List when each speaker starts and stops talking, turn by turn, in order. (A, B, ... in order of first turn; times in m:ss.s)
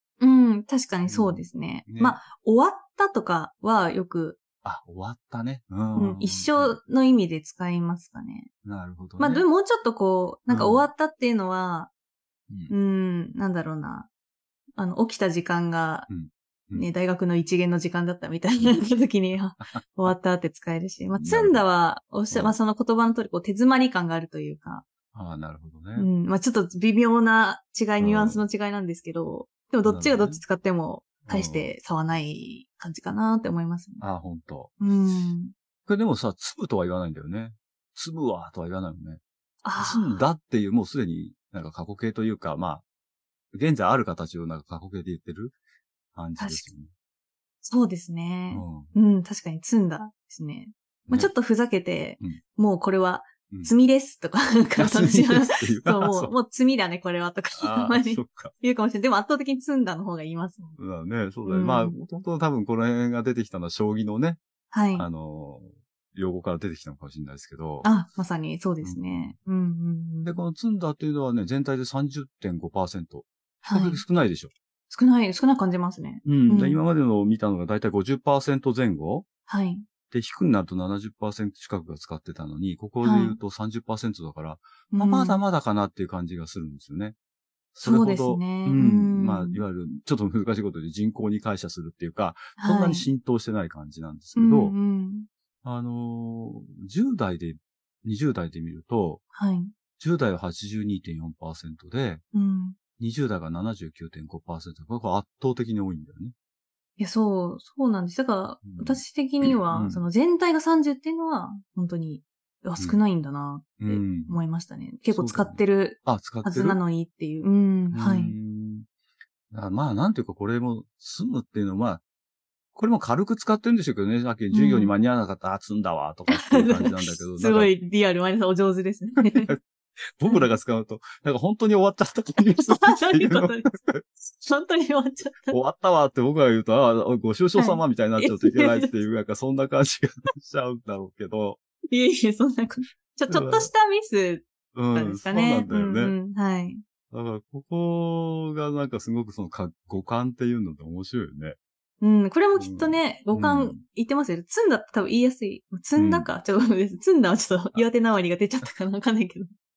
0:00.2-0:04.4 A
0:01.1-0:02.2 B
0:04.6-0:06.8 B
0:05.9-0:08.5 A
0:08.6-0:09.4 B
0:09.2-0:11.9 A
0:10.5-0:10.9 B
0:12.7-0:14.1 A
0:14.8-0:16.1 A
0:16.1-0:16.9 B
0:16.8-0:24.8 A
0:19.7-0:20.1 B
0:21.2-0:21.6 B
0:22.3-0:22.6 B
0:25.1-0:26.1 B
0:26.0-0:34.0 A
0:28.0-0:28.4 B
0:29.8-0:30.4 B
0:31.2-0:31.7 B
0:34.0-0:34.7 B
0:34.8-0:35.5 A
0:35.9-0:39.2 B
0:39.6-0:40.2 A
0:39.8-0:42.8 B
0:43.5-0:45.6 B
0:46.1-0:46.9 B
0:46.4-0:46.7 A
0:47.6-1:00.8 A
0:48.5-0:48.9 B
0:54.8-0:56.3 B
0:57.5-0:58.5 B
1:00.8-1:04.4 B
1:01.4-1:02.0 A
1:04.7-1:05.1 A
1:05.0-1:07.9 B
1:07.8-1:10.4 A
1:08.8-1:09.3 B
1:10.2-1:14.5 B
1:13.6-1:14.0 A
1:14.9-1:16.8 A
1:16.2-1:19.2 B
1:19.5-1:19.8 A
1:20.1-1:27.2 B
1:23.0-1:23.4 A
1:24.9-1:25.4 A
1:27.7-1:34.8 B
1:27.8-1:29.6 A
1:32.6-1:33.1 A
1:34.4-1:35.3 A
1:35.6-1:39.2 B
1:39.3-1:39.7 A
1:40.0-1:42.2 B
1:42.3-1:42.8 A
1:43.0-1:46.3 B
1:47.0-1:58.3 A
1:48.6-1:50.0 B
1:53.8-1:54.4 B
1:55.1-1:56.8 B
1:57.9-1:58.9 B
1:59.5-2:02.0 B
2:02.7-2:07.7 B
2:04.5-2:04.9 A
2:06.3-2:09.5 A
2:09.3-2:09.6 B
2:10.2-2:14.0 B
2:12.6-2:13.7 A
2:14.4-2:15.6 A
2:15.5-2:21.6 B
2:17.6-2:19.0 A
2:21.9-2:26.8 A
2:23.3-2:23.7 B
2:24.7-2:26.1 B
2:27.1-2:31.6 B
2:32.0-2:39.5 A
2:32.6-2:33.8 B
2:36.0-2:36.4 B